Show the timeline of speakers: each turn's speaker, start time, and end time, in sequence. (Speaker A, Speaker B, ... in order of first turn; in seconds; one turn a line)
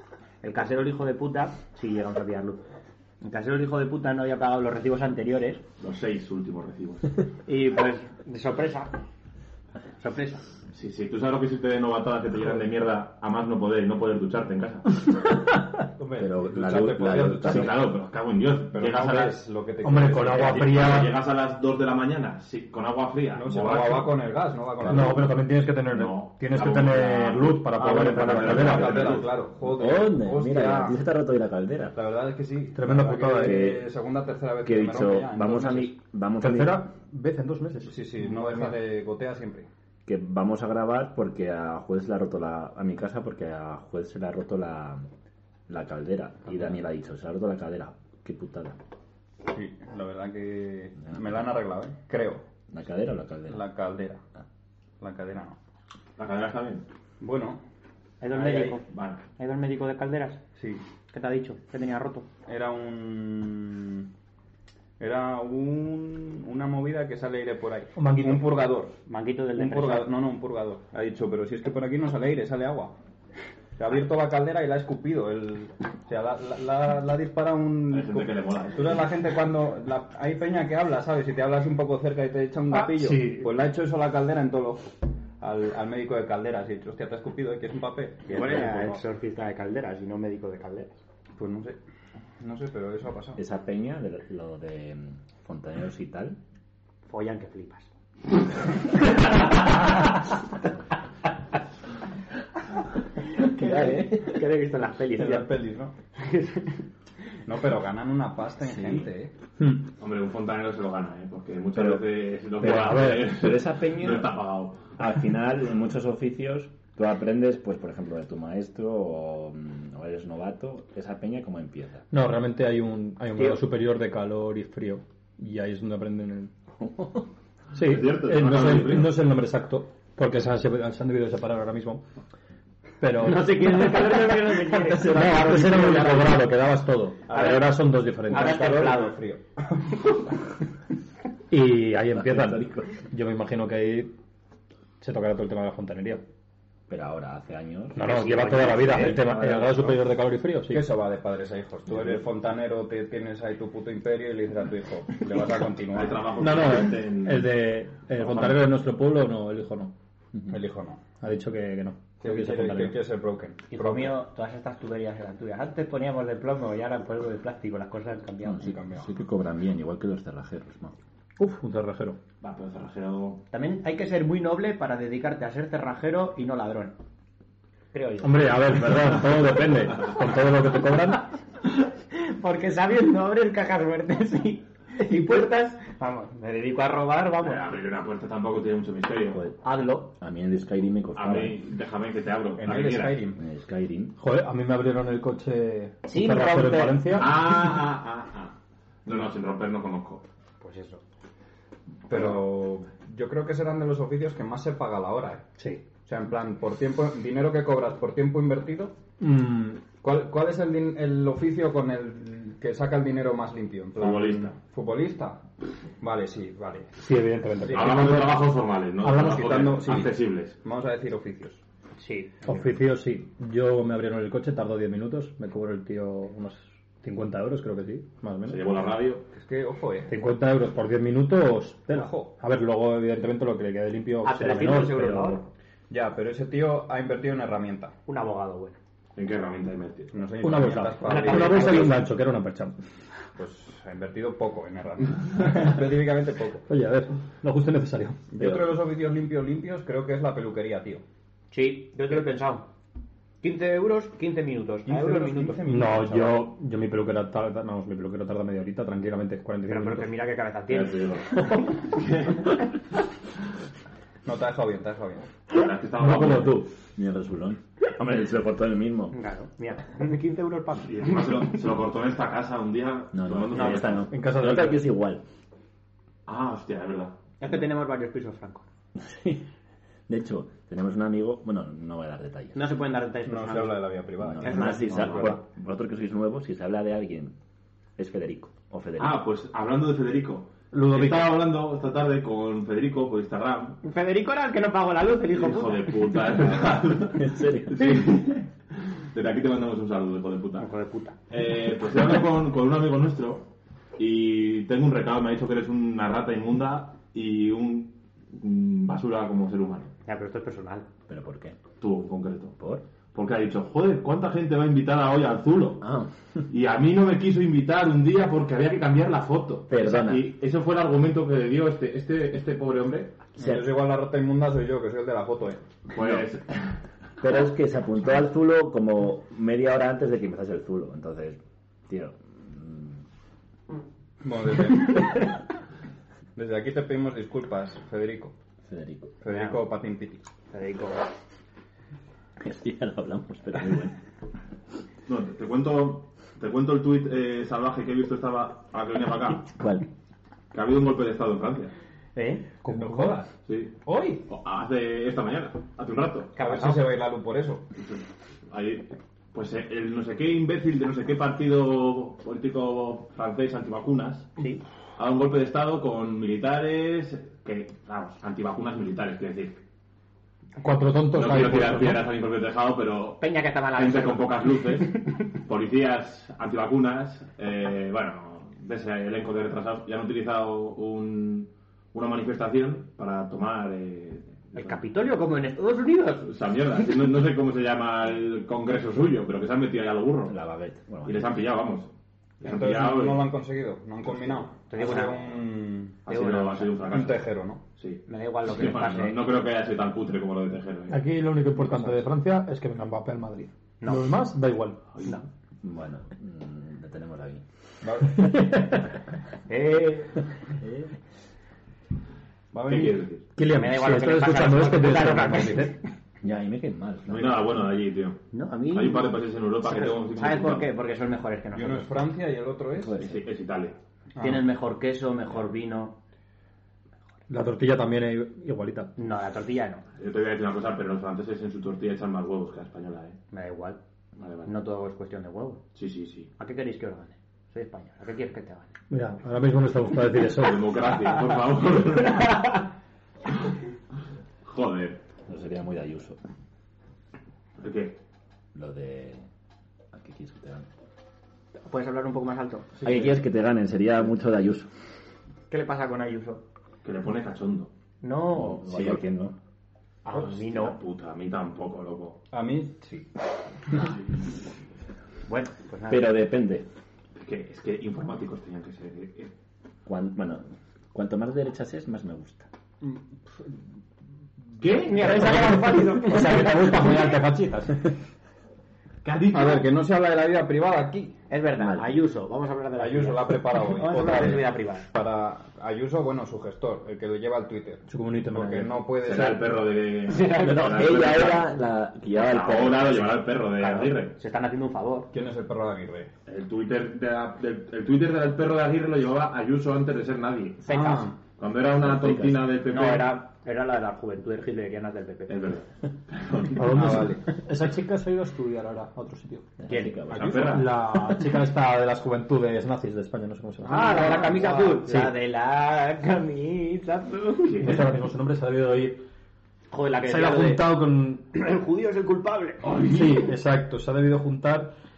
Speaker A: 0.4-2.6
Speaker A: 3.2-5.6
Speaker B: 5.8-7.2
Speaker A: 7.5-9.0
Speaker A: 10.0-10.4
Speaker B: 10.7-14.9
Speaker C: 15.9-17.8
Speaker D: 16.2-17.8
Speaker B: 17.4-19.4
Speaker C: 18.7-20.7
Speaker E: 19.8-21.1
Speaker B: 20.3-24.2
Speaker C: 23.3-25.4
Speaker E: 24.9-29.2
Speaker B: 25.9-29.3
Speaker C: 28.2-31.0
Speaker D: 29.6-32.0
Speaker C: 31.9-36.0
Speaker E: 32.7-33.7
Speaker D: 33.4-33.9
Speaker D: 34.6-36.9
Speaker E: 36.4-38.7
Speaker C: 37.8-39.7
Speaker D: 40.0-45.0
Speaker D: 45.7-48.8
Speaker C: 49.5-52.4
Speaker D: 51.0-51.4
Speaker D: 52.7-53.7
Speaker C: 53.5-54.2
Speaker C: 55.0-55.6
Speaker B: 56.2-56.8
Speaker C: 57.2-57.6
Speaker A: 58.2-60.4
Speaker C: 58.3-58.8
Speaker B: 58.9-59.2
Speaker C: 60.5-60.8
Speaker A: 61.1-62.3
Speaker C: 62.5-64.1
Speaker C: 65.0-69.0
Speaker E: 68.0-68.5
Speaker A: 69.0-70.1
Speaker C: 69.5-72.9
Speaker C: 73.8-89.0
Speaker B: 77.9-79.1
Speaker E: 82.7-83.5
Speaker A: 88.3-91.0
Speaker C: 91.4-91.8
Speaker C: 92.4-93.4
Speaker D: 93.3-96.4
Speaker A: 97.0-97.9
Speaker A: 98.8-100.1
Speaker A: 103.3-105.5
Speaker D: 103.6-104.2
Speaker C: 105.1-106.0
Speaker A: 106.2-106.8
Speaker C: 107.5-109.3
Speaker B: 110.0-114.9
Speaker D: 111.7-112.1
Speaker D: 112.6-114.3
Speaker E: 112.6-113.3
Speaker D: 115.0-122.0
Speaker E: 122.1-126.5
Speaker A: 123.3-123.6
Speaker D: 126.8-127.3
Speaker E: 127.7-132.0
Speaker B: 127.8-129.2
Speaker E: 133.0-134.1
Speaker A: 133.2-136.5
Speaker E: 134.9-138.9
Speaker D: 134.9-135.8
Speaker C: 137.3-137.7
Speaker A: 137.3-137.8
Speaker A: 138.3-139.2
Speaker C: 138.3-139.9
Speaker E: 141.5-144.1
Speaker D: 142.1-142.9
Speaker E: 145.0-146.2
Speaker D: 146.9-150.0
Speaker E: 147.9-150.9
Speaker A: 148.0-149.3
Speaker C: 150.7-156.2
Speaker B: 155.9-157.6
Speaker E: 156.4-159.9
Speaker B: 158.1-158.6
Speaker C: 160.5-161.0
Speaker E: 161.2-163.0
Speaker C: 162.2-164.2
Speaker A: 163.7-168.7
Speaker D: 168.4-170.9
Speaker C: 168.6-169.1
Speaker E: 171.4-172.2
Speaker B: 172.4-173.4
Speaker A: 173.5-176.9
Speaker A: 177.9-179.0
Speaker E: 178.2-181.3
Speaker A: 182.1-187.7
Speaker B: 187.4-189.4
Speaker D: 189.3-191.6
Speaker A: 189.6-190.1
Speaker B: 191.2-193.2
Speaker C: 192.6-193.4
Speaker D: 193.4-194.2
Speaker E: 194.2-197.4
Speaker A: 196.1-197.2
Speaker B: 197.1-198.5
Speaker B: 199.0-200.2
Speaker A: 200.6-201.0
Speaker C: 202.1-205.4
Speaker E: 205.6-205.8
Speaker C: 206.0-208.9
Speaker E: 209.2-209.8
Speaker C: 210.0-215.4
Speaker B: 214.0-214.5
Speaker C: 216.0-217.0
Speaker E: 217.0-218.5
Speaker B: 217.7-220.6
Speaker E: 219.0-220.0
Speaker C: 219.2-221.6
Speaker A: 222.0-222.6
Speaker E: 222.4-228.6
Speaker B: 228.4-229.2
Speaker C: 229.3-230.1
Speaker E: 230.1-235.4
Speaker C: 231.9-232.3
Speaker A: 234.2-235.4
Speaker C: 235.9-237.9
Speaker A: 238.1-238.8
Speaker B: 239.2-240.1
Speaker C: 240.1-241.9
Speaker E: 240.4-242.7
Speaker A: 241.0-242.0
Speaker C: 243.3-246.7
Speaker E: 246.7-248.2
Speaker C: 248.3-251.0
Speaker A: 251.5-252.7
Speaker A: 253.4-255.6
Speaker C: 254.8-256.5
Speaker E: 255.7-260.1
Speaker A: 259.6-261.4
Speaker B: 260.7-262.6
Speaker C: 264.2-265.3
Speaker B: 265.5-266.6
Speaker E: 266.0-266.7
Speaker D: 266.9-269.1
Speaker A: 269.1-271.6
Speaker B: 270.8-274.1
Speaker D: 273.1-275.2
Speaker A: 273.5-274.0
Speaker E: 274.1-274.9
Speaker B: 276.2-277.2
Speaker A: 277.4-278.6
Speaker D: 278.9-279.5
Speaker D: 280.1-282.6
Speaker A: 282.5-285.4
Speaker C: 283.2-285.2
Speaker D: 284.2-287.3
Speaker D: 288.0-289.2
Speaker B: 289.0-293.8
Speaker E: 290.7-291.4
Speaker A: 293.8-296.4
Speaker B: 295.3-300.7
Speaker D: 297.0-298.1
Speaker A: 300.6-301.2
Speaker B: 301.3-303.5
Speaker B: 304.0-309.9
Speaker A: 310.0-310.9
Speaker D: 311.1-311.6
Speaker B: 311.8-312.6
Speaker D: 312.6-312.8
Speaker B: 313.1-315.9
Speaker D: 315.8-316.1
Speaker B: 316.5-323.2
Speaker D: 319.7-320.3
Speaker C: 323.4-325.6
Speaker D: 323.4-323.6
Speaker B: 325.9-326.7
Speaker D: 327.2-333.0
Speaker C: 334.2-335.2
Speaker C: 336.4-338.3
Speaker D: 338.6-339.1
Speaker C: 339.2-340.2
Speaker A: 339.3-339.6
Speaker A: 340.5-341.1
Speaker D: 342.4-344.0
Speaker B: 345.1-349.5
Speaker D: 349.5-349.8
Speaker B: 350.5-351.7
Speaker A: 352.1-352.6
Speaker C: 352.6-353.2
Speaker E: 352.7-353.2
Speaker B: 353.4-356.4
Speaker C: 353.9-354.2
Speaker A: 356.3-356.9
Speaker C: 356.4-357.6
Speaker B: 357.8-364.4
Speaker A: 364.4-364.6
Speaker B: 364.9-369.6
Speaker E: 370.6-372.1
Speaker B: 371.1-384.8
Speaker A: 373.2-375.0
Speaker A: 384.5-386.3
Speaker B: 386.2-390.3
Speaker D: 390.3-391.3
Speaker B: 391.0-393.3
Speaker C: 392.4-396.0
Speaker A: 394.7-395.3
Speaker B: 396.1-401.0
Speaker A: 396.1-396.9
Speaker C: 396.9-397.6
Speaker A: 398.1-399.2
Speaker E: 400.9-404.9
Speaker A: 403.8-404.2
Speaker B: 404.9-405.2
Speaker D: 405.6-407.4
Speaker C: 407.8-408.3
Speaker E: 408.1-408.8
Speaker A: 409.5-410.2
Speaker C: 412.5-413.0
Speaker B: 412.6-413.2
Speaker E: 413.4-415.8
Speaker A: 413.5-415.8
Speaker D: 416.2-417.4
Speaker B: 417.1-420.7
Speaker A: 418.3-422.1
Speaker C: 421.5-423.0
Speaker D: 422.8-423.2
Speaker B: 423.0-423.8
Speaker C: 424.1-424.4
Speaker A: 424.2-426.0
Speaker E: 427.3-428.9
Speaker A: 429.0-429.8
Speaker B: 430.0-433.2
Speaker A: 433.3-433.8
Speaker B: 434.2-434.5
Speaker A: 434.4-435.6
Speaker B: 435.7-436.3
Speaker A: 436.4-438.7
Speaker E: 438.9-440.7
Speaker B: 440.4-442.6
Speaker B: 444.4-445.0
Speaker D: 445.3-446.2
Speaker B: 447.6-448.0
Speaker D: 448.5-449.2
Speaker D: 449.9-450.7
Speaker A: 451.7-452.8
Speaker C: 452.8-453.1
Speaker D: 452.8-454.7
Speaker A: 455.5-456.4
Speaker B: 456.8-457.7
Speaker A: 458.0-459.0
Speaker D: 458.3-459.3
Speaker A: 460.0-460.8
Speaker B: 460.1-462.2
Speaker C: 462.3-463.1
Speaker A: 465.2-466.1
Speaker D: 465.9-466.6
Speaker B: 467.2-469.3
Speaker D: 469.9-472.5
Speaker C: 472.8-473.5
Speaker B: 474.6-475.6
Speaker A: 474.7-477.2
Speaker E: 475.0-477.9
Speaker B: 479.0-479.6
Speaker C: 479.3-481.2
Speaker A: 481.3-484.9
Speaker D: 481.6-481.8
Speaker C: 482.8-489.5
Speaker E: 487.9-488.9
Speaker B: 489.0-491.5
Speaker A: 490.1-491.3
Speaker D: 490.3-493.2
Speaker B: 492.1-494.1
Speaker A: 493.5-495.1
Speaker C: 495.1-496.1
Speaker B: 496.2-500.8
Speaker A: 500.6-501.1
Speaker C: 500.7-501.1
Speaker B: 501.4-503.2
Speaker D: 501.8-502.4
Speaker A: 502.7-505.4
Speaker B: 505.3-507.1
Speaker E: 506.5-509.5
Speaker C: 506.6-507.3
Speaker D: 509.6-510.5
Speaker A: 509.7-510.0
Speaker B: 510.1-510.8
Speaker E: 510.3-515.1
Speaker A: 513.6-517.7
Speaker C: 513.7-514.7
Speaker B: 517.4-517.9
Speaker E: 517.6-519.0
Speaker A: 519.7-520.7
Speaker E: 520.0-521.3
Speaker A: 521.3-522.8
Speaker B: 522.6-523.3
Speaker E: 522.8-524.7